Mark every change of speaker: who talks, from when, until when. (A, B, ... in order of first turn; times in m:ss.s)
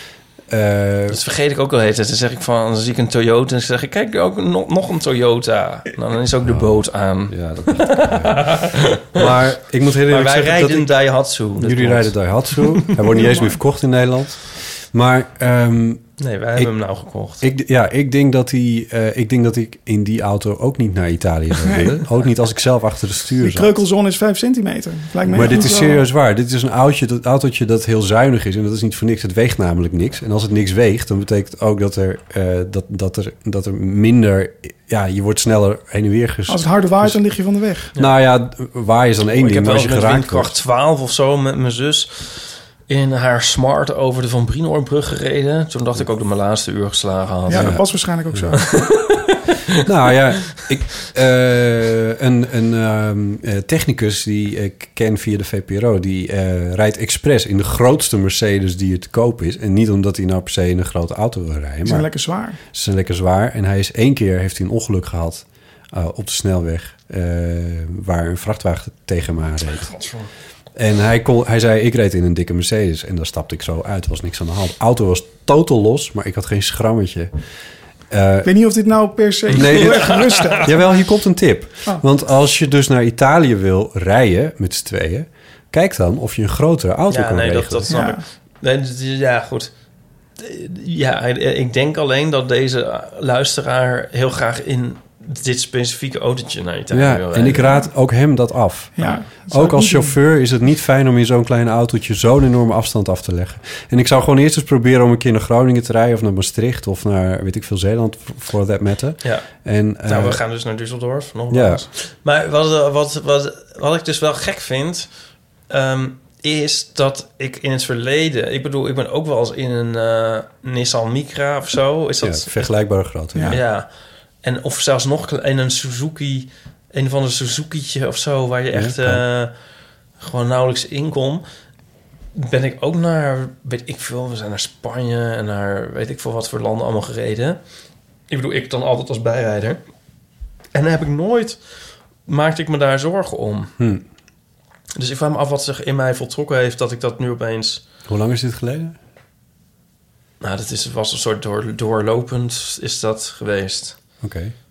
0:00.5-0:01.2 A
0:01.1-0:09.3 B
0:06.4-0:10.9 A
0:10.1-0:13.0 B
0:11.6-0:16.7 A
0:13.1-0:13.6 C
0:16.2-0:17.4 B
0:17.4-0:23.8 A
0:23.4-0:26.0 C
0:25.3-0:37.2 A
0:36.5-0:37.9 C
0:38.0-0:40.6 A
0:39.3-0:47.8 B
0:47.5-0:48.7 C
0:47.5-0:48.6 A
0:48.6-0:49.5 B
0:49.8-1:02.1 A
1:01.8-1:02.6 C
1:02.7-1:09.9 A
1:09.8-1:10.3 B
1:10.7-1:17.3 A
1:18.1-1:18.5 A
1:18.4-1:21.0 C
1:19.5-1:20.6 B
1:19.6-1:28.0 A
1:27.1-1:29.7 B
1:27.9-1:28.2 C
1:30.4-1:37.8 B
1:36.9-1:50.4 A
1:39.0-1:40.2 C
1:50.1-1:55.1 B
1:51.5-1:51.8 A
1:55.7-2:02.7 B
2:02.2-2:03.6 A
2:03.4-2:03.9 B
2:04.4-2:09.5 B
2:08.7-2:09.2 A
2:10.2-2:11.4 B
2:12.4-2:17.6 B
2:18.3-2:19.8 B
2:20.7-2:21.6 B
2:22.3-2:23.7 B
2:23.8-2:24.0 A
2:25.0-2:27.8 B
2:28.1-2:29.0 A
2:30.4-2:34.0 B
2:34.2-2:34.5 A